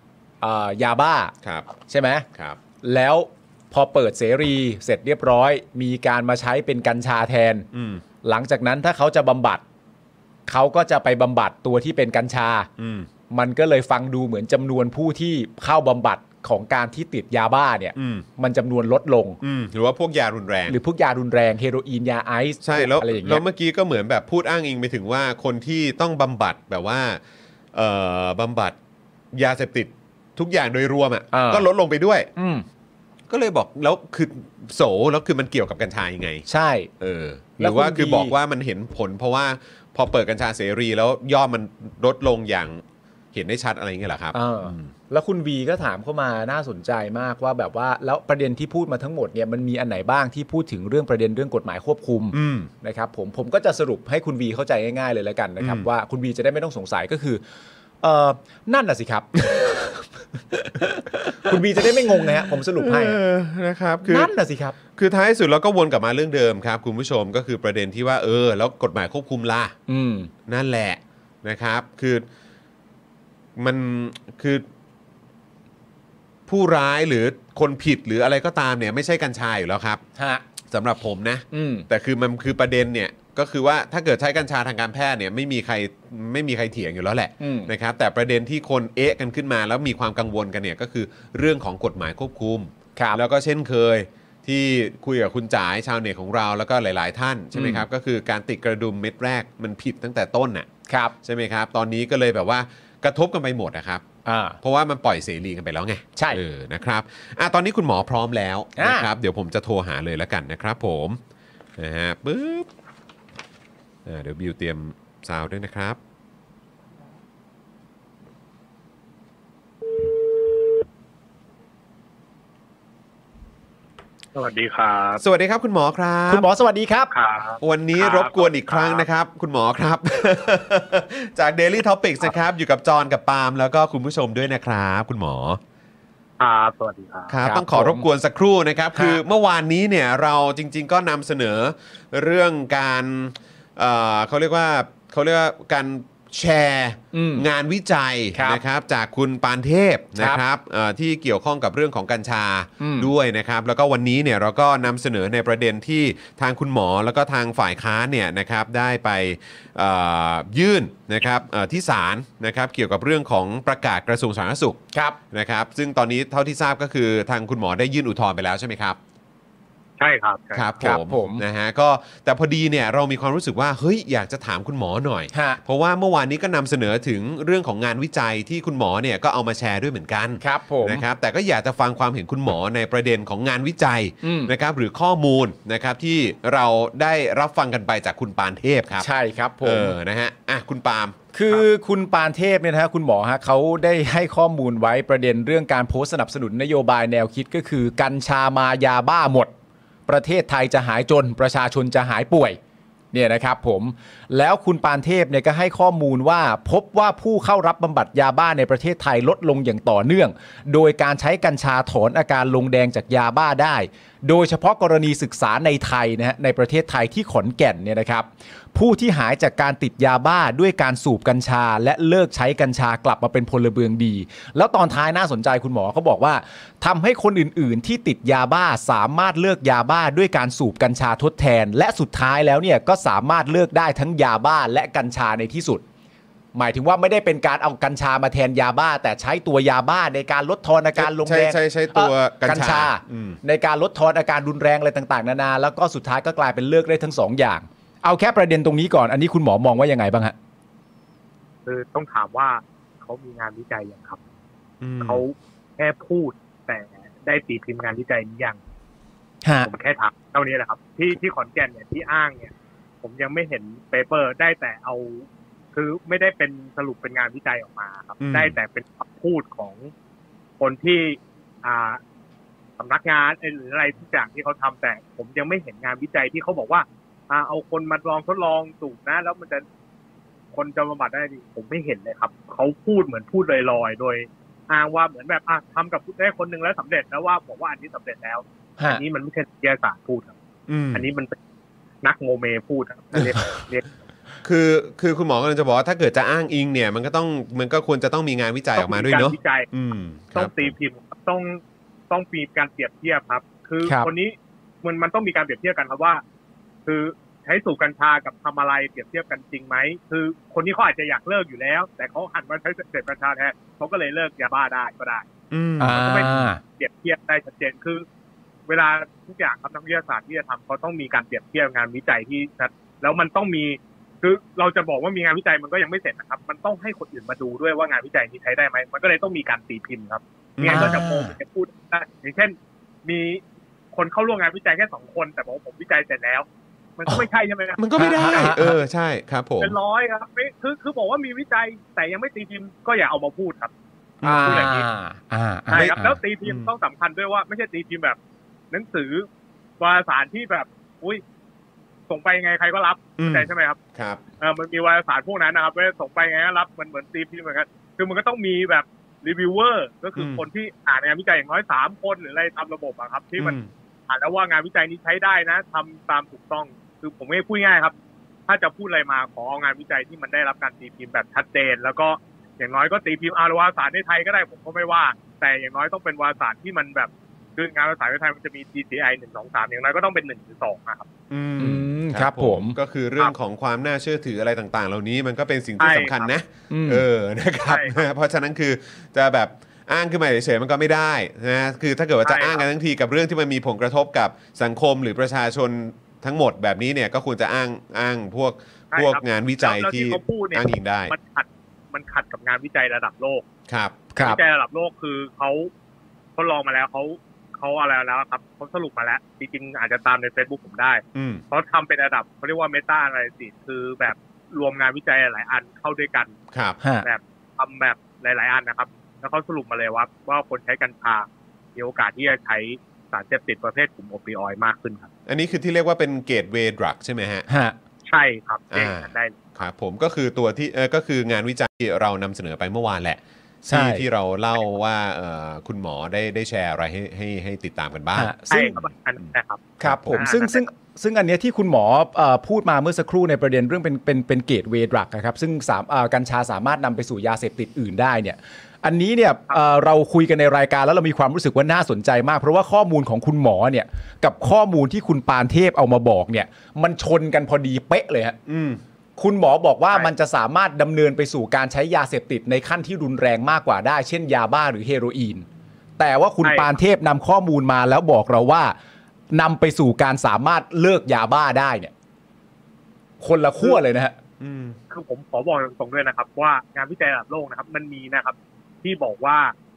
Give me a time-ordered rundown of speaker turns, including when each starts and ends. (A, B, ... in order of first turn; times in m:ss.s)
0:00.4-0:02.2 A
0:02.3-0:02.6 B
0:02.8-0:07.7 A
0:07.7-0:08.0 B
0:08.2-0:09.6 A
0:10.5-0:12.7 A
0:12.8-0:13.1 B
0:13.3-0:19.4 A
0:18.0-0:18.2 B
0:19.4-0:20.8 B
0:20.7-0:23.4 A
0:22.6-0:27.2 B
0:27.7-0:28.8 B
0:29.3-0:32.3 B
0:31.3-0:31.7 A
0:32.4-0:32.6 A
0:33.3-0:36.4 B
0:36.4-0:36.9 A
0:37.0-0:42.8 B
0:37.6-0:38.4 A
0:43.3-0:44.9 B
0:44.3-0:57.4 A
0:52.3-0:52.7 B
0:55.6-0:55.9 B
0:58.0-1:03.2 A
0:59.4-0:59.8 B
1:01.1-1:01.6 B
1:02.2-1:04.3 B
1:04.0-1:04.8 A
1:04.9-1:09.8 B
1:09.9-1:10.3 A
1:10.5-1:12.2 B
1:13.6-1:14.6 B
1:16.5-1:20.0 B
1:20.2-1:20.4 A
1:20.7-1:40.7 B
1:21.5-1:21.9 A
1:27.4-1:27.7 A
1:37.5-1:37.8 A
1:40.9-1:41.1 A
1:41.2-1:44.0 B
1:44.2-1:44.6 A
1:44.6-1:51.2 B
1:48.8-1:49.1 A
1:51.8-1:52.7 B
1:54.0-1:56.0 B
2:04.3-2:05.2 C
2:05.2-2:06.4 B
2:06.3-2:07.1 A
2:07.1-2:09.0 C
2:07.6-2:15.6 B
2:16.4-2:17.3 C
2:17.3-2:49.0 B
2:17.4-2:18.1 A
2:18.9-2:19.2 A
2:27.1-2:27.4 A
2:28.3-2:28.6 A
2:32.8-2:33.1 A
2:44.9-2:45.2 A
2:50.0-2:50.6 C
2:50.6-3:09.1 B
2:50.8-2:51.4 A
2:55.3-2:55.6 A
3:00.4-3:01.0 A
3:04.2-3:04.5 A
3:09.0-3:09.9 A
3:09.6-3:11.6 B
3:11.3-3:19.5 A
3:20.1-3:22.6 A
3:23.1-3:55.8 A
3:56.5-4:10.3 A
4:01.0-4:03.4 B
4:11.7-4:14.2 C
4:14.8-4:15.2 B
4:15.0-4:18.6 C
4:19.4-4:19.7 A
4:19.6-4:29.9 C
4:28.2-4:28.6 B
4:30.6-4:32.0 C
4:32.8-4:39.6 C
4:40.5-4:50.3 C
4:50.7-4:51.0 B
4:50.9-4:51.4 C
4:52.0-4:53.8 C
4:54.4-5:00.7 B
4:58.8-4:59.7 C
5:00.3-5:06.2 C
5:06.8-5:15.3 C
5:15.5-5:16.1 B
5:15.8-5:16.6 A
5:15.9-5:18.0 C
5:18.7-5:36.4 C
5:30.6-5:31.0 B
5:30.7-5:31.3 A
5:37.0-5:37.8 C
5:37.8-5:39.8 B
5:38.0-5:38.8 A
5:39.6-5:43.7 C
5:44.2-5:44.7 B
5:44.2-5:46.2 A
5:44.4-5:44.9 C
5:45.7-5:48.2 C
5:46.4-5:46.7 B
5:48.7-5:49.3 C
5:49.8-5:51.2 C
5:52.1-5:53.8 C
5:53.2-5:54.2 B
5:54.4-6:03.6 C
6:00.2-6:00.4 B
6:03.4-6:03.7 B
6:04.1-6:07.9 C
6:08.5-6:21.1 C
6:21.3-6:41.1 B
6:21.6-6:22.8 A
6:25.8-6:26.3 C
6:26.7-6:27.0 A
6:27.6-6:28.0 C
6:32.2-6:32.6 C
6:38.9-6:43.4 C
6:43.7-6:44.0 B
6:44.2-6:44.4 A
6:44.2-6:45.7 C
6:46.4-6:56.3 C
6:51.2-6:51.4 B
6:56.5-6:56.8 B
6:56.8-6:57.1 A
6:57.0-7:05.1 C
7:05.3-7:07.5 B
7:07.5-7:07.8 A
7:08.1-7:09.6 C
7:08.7-7:18.3 B
7:13.7-7:14.0 A
7:18.2-7:18.8 A
7:18.5-7:20.6 C
7:19.8-7:38.4 A
7:19.8-7:20.2 B
7:38.5-7:38.8 B
7:39.2-7:45.4 A
7:46.0-7:48.7 A
7:46.4-7:46.7 C
7:49.3-7:51.9 A
7:53.2-7:54.2 A
7:54.4-7:54.8 B
7:54.9-7:59.5 C